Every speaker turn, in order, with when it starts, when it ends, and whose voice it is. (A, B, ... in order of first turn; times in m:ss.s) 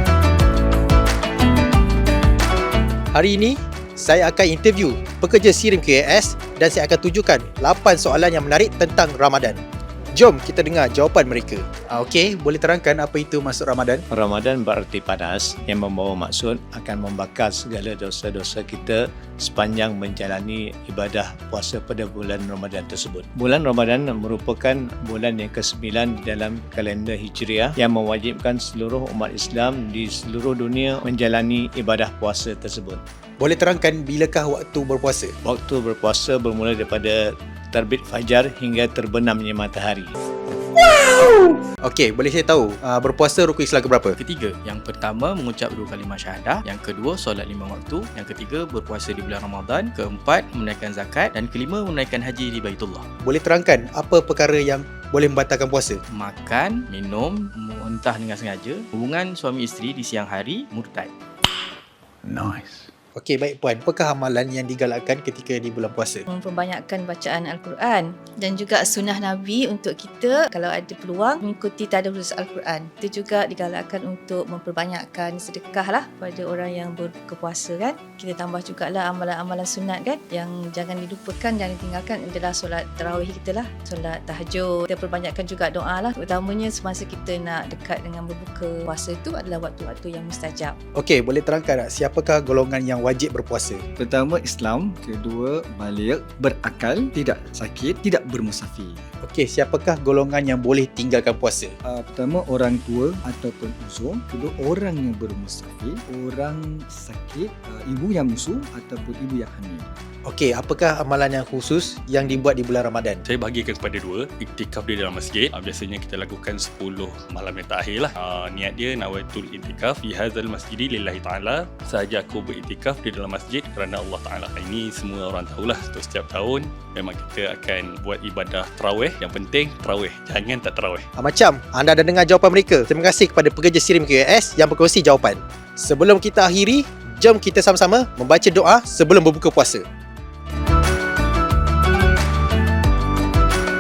0:03.1-0:09.6 A
0:10.1-0:14.0 A
0:14.1-0:33.0 B
0:33.4-0:35.3 A
0:35.4-0:40.1 B
0:41.2-0:44.2 A
0:44.2-0:53.1 C
0:53.2-0:56.0 A
0:56.1-1:01.1 C
1:03.1-1:06.2 A
1:06.3-1:30.8 D
1:31.0-1:33.8 A
1:34.0-1:39.0 E
1:39.2-1:41.7 A
1:41.8-1:49.9 E
1:50.2-1:53.2 A
1:53.2-2:11.0 F
2:11.2-2:19.8 A